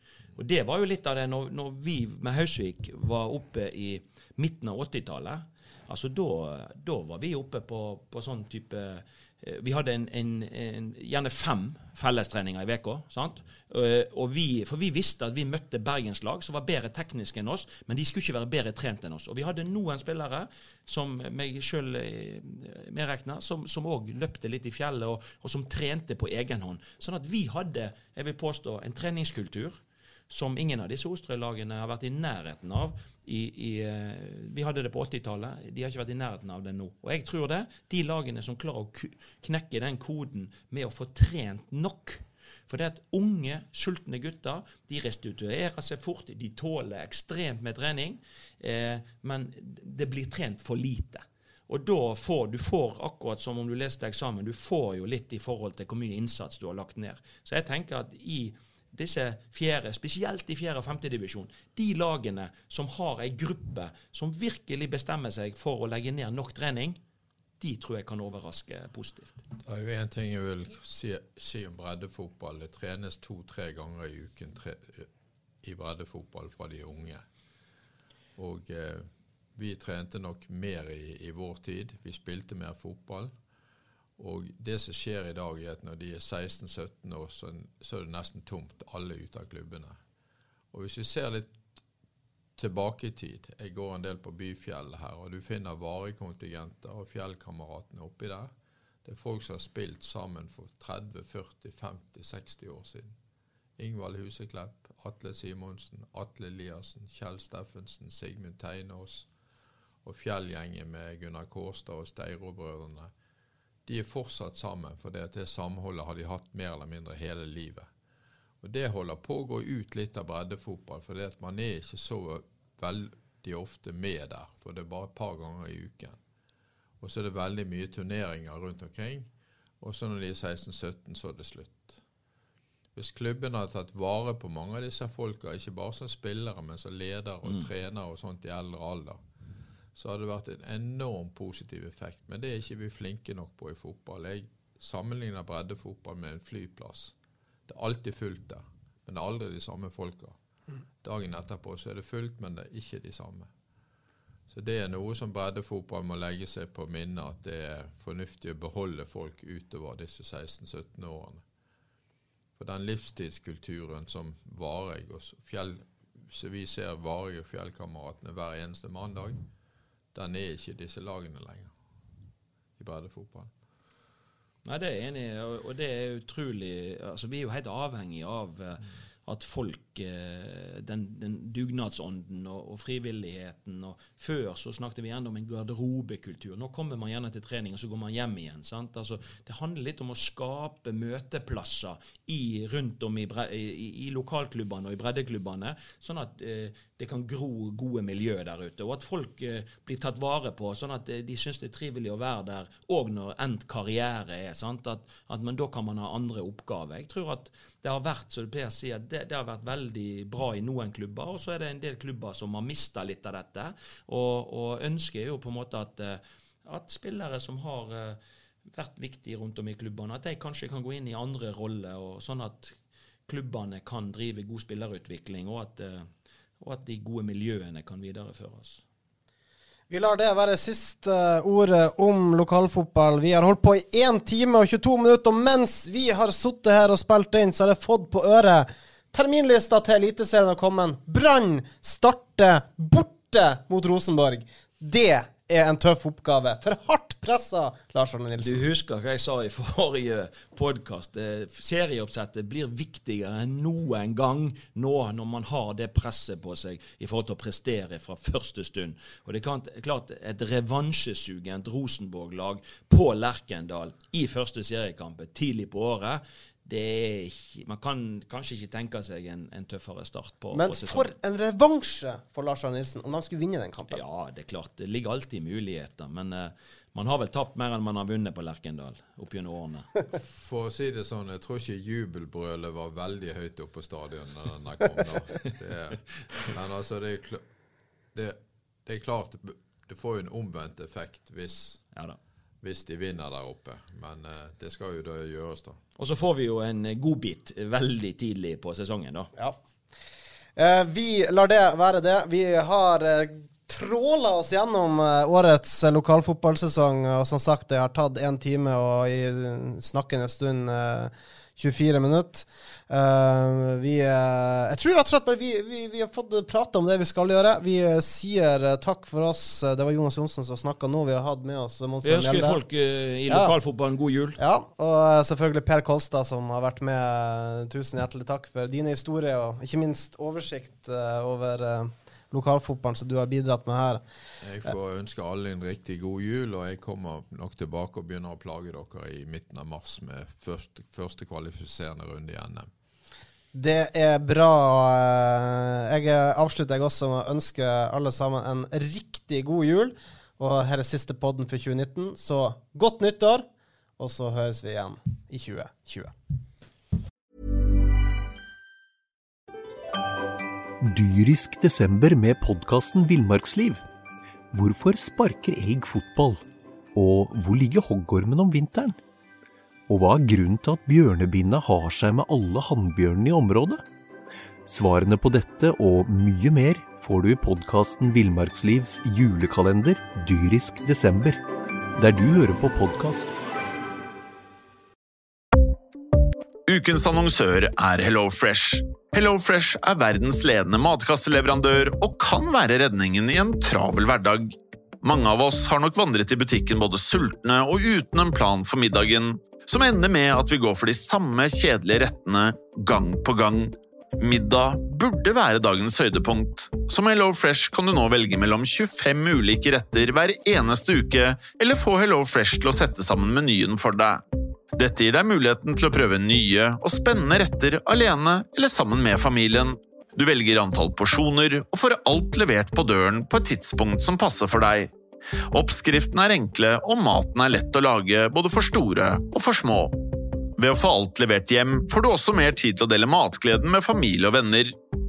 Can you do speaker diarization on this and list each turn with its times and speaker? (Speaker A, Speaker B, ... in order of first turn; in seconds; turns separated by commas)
Speaker A: 0.3-67.0, Speaker A: 67.6-69.4, Speaker B: 69.6-75.1, Speaker B: 75.6-77.2, Speaker B: 78.3-83.3, Speaker B: 84.2-90.0, Speaker B: 90.7-91.6, Speaker B: 92.6-98.5, Speaker B: 99.0-103.1, Speaker B: 103.8-109.3, Speaker B: 110.0-113.1, Speaker B: 113.8-117.9, Speaker B: 118.6-126.2, Speaker B: 127.0-129.3, Speaker B: 129.8-132.0, Speaker B: 132.9-139.2, Speaker A: 137.4-137.7, Speaker B: 139.9-147.1, Speaker B: 147.7-150.3, Speaker B: 151.0-153.5, Speaker B: 154.5-161.4, Speaker B: 162.6-169.4, Speaker B: 170.1-171.7, Speaker B: 172.8-173.5, Speaker A: 174.6-222.7, Speaker A: 223.3-226.1, Speaker A: 226.6-228.8, Speaker C: 229.9-248.7, Speaker A: 248.4-271.1, Speaker C: 270.5-274.0, Speaker A: 273.9-279.9, Speaker B: 280.1-287.4, Speaker B: 288.1-291.9, Speaker B: 292.6-295.8, Speaker A: 296.0-299.3, Speaker C: 300.6-322.6, Speaker A: 322.0-324.4, Speaker C: 323.3-323.5, Speaker C: 324.4-334.0, Speaker B: 334.4-342.7, Speaker C: 343.5-353.4, Speaker C: 354.0-356.1, Speaker D: 360.8-363.8, Speaker D: 364.5-366.4, Speaker D: 366.9-369.0, Speaker D: 369.9-373.8, Speaker D: 374.7-381.4, Speaker D: 382.0-383.4, Speaker E: 386.7-414.2, Speaker E: 414.7-424.9, Speaker E: 425.5-430.0, Speaker E: 430.6-434.8